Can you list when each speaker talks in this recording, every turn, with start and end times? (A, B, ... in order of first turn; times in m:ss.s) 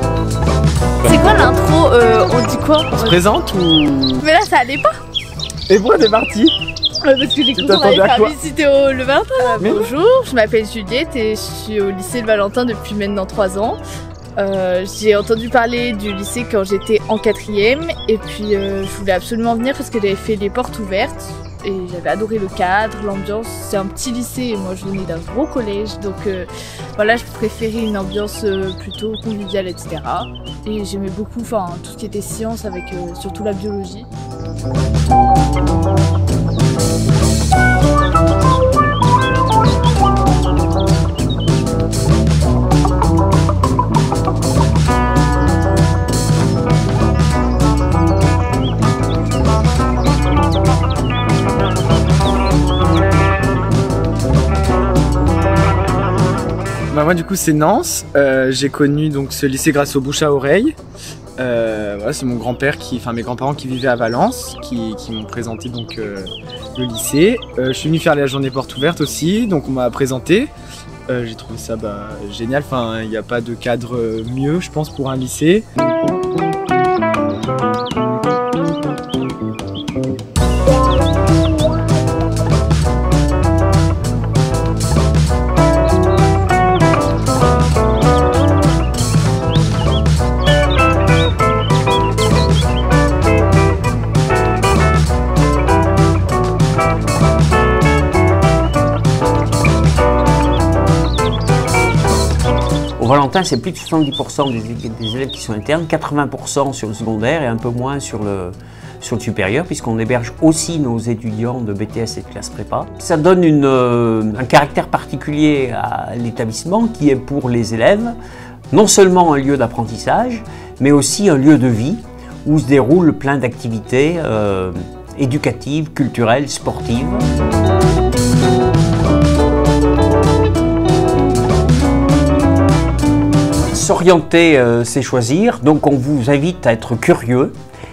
0:01.0-0:03.2 A
0:01.0-0:01.5 B
0:02.9-0:04.2 B
0:04.2-0:04.9 A
0:05.7-0:06.6 B
0:07.0-0:13.8 A
0:07.5-0:08.4 B
0:09.6-0:09.9 B
0:14.4-0:34.1 A
0:56.9-1:00.8 B
1:01.4-1:10.5 B
1:11.1-1:15.6 B
1:43.0-1:58.2 C
1:58.7-2:07.2 C
2:13.7-2:17.5 C